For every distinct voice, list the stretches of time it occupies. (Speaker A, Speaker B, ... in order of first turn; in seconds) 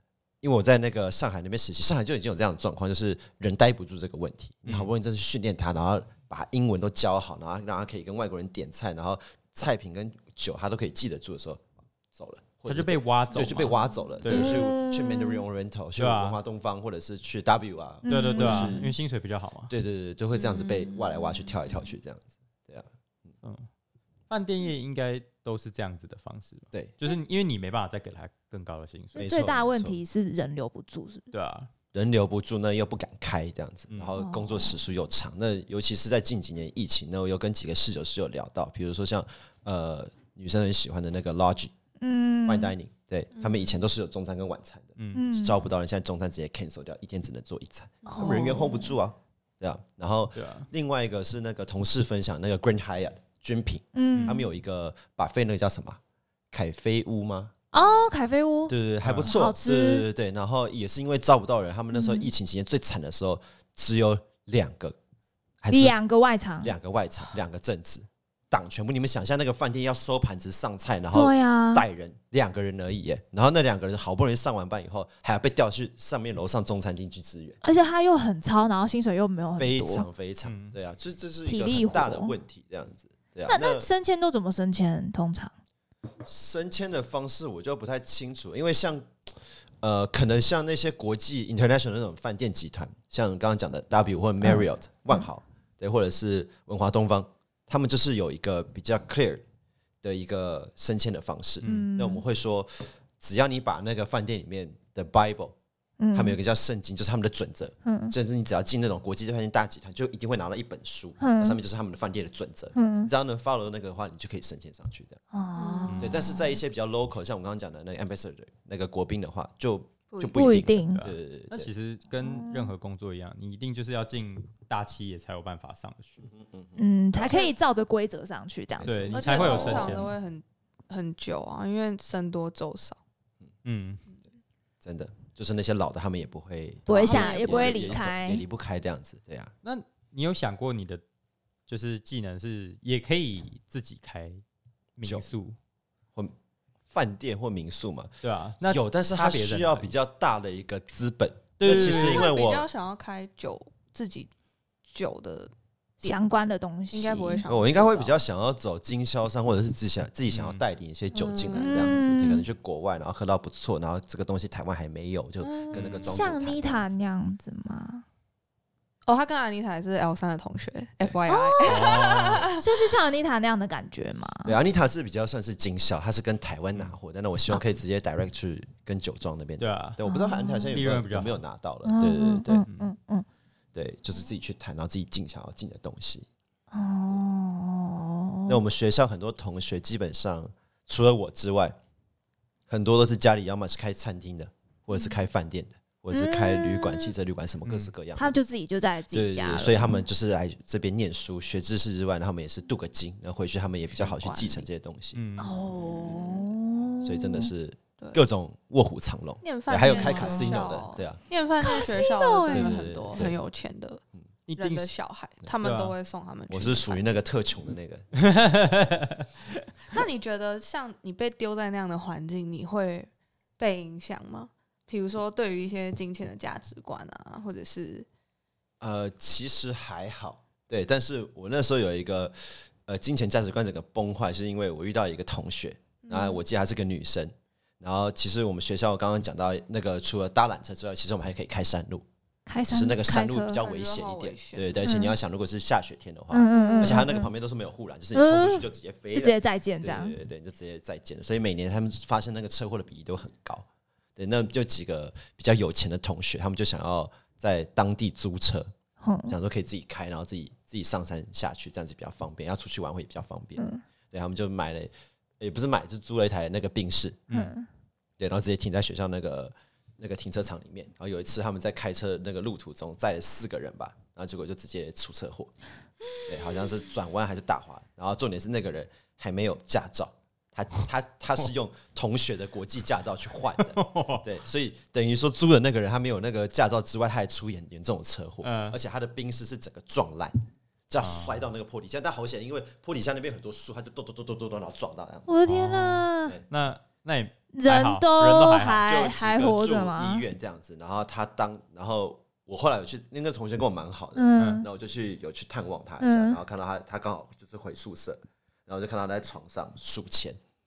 Speaker A: 0.4-18.9, 19.7-22.9, 29.1-30.0, 31.9-41.7, 42.5-56.0, 56.5-57.5, 58.7-65.0, 65.6-66.0, 66.6-77.6, 79.6-83.9, 86.2-99.4, 100.0-105.5, 106.1-115.2, 116.0-121.7, 126.2-127.4, 128.8-130.0, 134.8-139.5, 145.0-145.3, 146.9-152.7, 157.4-167.0, 174.4-182.7, 183.7-186.3, 188.5-191.8, 192.7-198.3, 199.1-205.2, 206.0-206.5, 207.0-211.2, 212.5-213.3, 216.5-218.1, 228.8-242.1, 242.7-258.7, 259.3-267.3, 268.2-275.5, 276.2-295.5, 298.8-310.4
Speaker B: 4.7-4.9, 12.7-14.7, 16.0-16.4, 18.1-19.7, 23.4-23.7, 24.3-29.3, 31.3-31.7, 45.0-45.3, 50.3-50.7, 54.1-54.4, 59.0-59.3, 80.4-80.8, 101.6-101.9, 115.9-116.2, 120.9-126.3, 128.8-130.1, 133.6-134.0, 139.6-141.0, 141.7-144.4, 144.9-145.6, 148.2-149.9, 151.6-152.3, 160.3-160.6, 165.7-166.2, 171.6-172.5, 179.6-180.0, 180.7-181.4, 182.7-182.9, 197.6-197.9, 205.1-205.6, 214.5-214.9, 215.6-215.9, 218.1-219.7, 283.6-284.2, 288.4-288.8, 291.0-291.4, 295.4-298.8, 304.4-304.7
Speaker C: 14.3-15.4, 18.0-18.9, 29.1-31.3, 34.2-34.8, 42.0-42.7, 45.1-45.6, 48.1-48.9, 53.9-54.5, 57.7-60.0, 61.9-62.3, 65.7-66.7, 71.1-71.8, 77.6-80.1, 81.5-82.3, 83.5-85.5, 94.4-95.2, 101.6-102.2, 106.0-106.4, 107.8-108.1, 111.2-111.6, 112.7-113.1, 115.3-116.6, 120.3-121.0, 122.2-122.7, 126.8-129.8, 136.9-138.4, 156.0-157.4, 161.2-162.4, 165.6-168.0, 171.3-174.6, 180.0-180.7, 181.8-183.2, 186.7-188.6, 196.1-197.1, 198.2-200.0, 205.4-207.5, 209.8-210.6, 211.6-212.9, 242.4-243.6, 244.8-245.1, 246.3-247.3, 248.1-250.1, 259.0-259.4, 263.6-263.8, 267.3-267.7, 295.3-296.4, 297.5-300.2, 304.1-304.7, 306.0-306.4
Speaker D: 20.4-21.0, 43.4-43.7, 48.0-48.5, 57.8-58.0, 115.5-116.0, 120.1-120.6, 127.1-127.5, 129.1-133.0, 136.9-138.0, 151.6-154.3, 154.9-156.3, 156.9-158.2, 161.2-162.0, 169.1-172.8, 203.9-204.7, 209.4-214.0, 214.6-217.0, 219.9-228.1, 236.0-236.4, 243.6-244.9, 246.5-247.1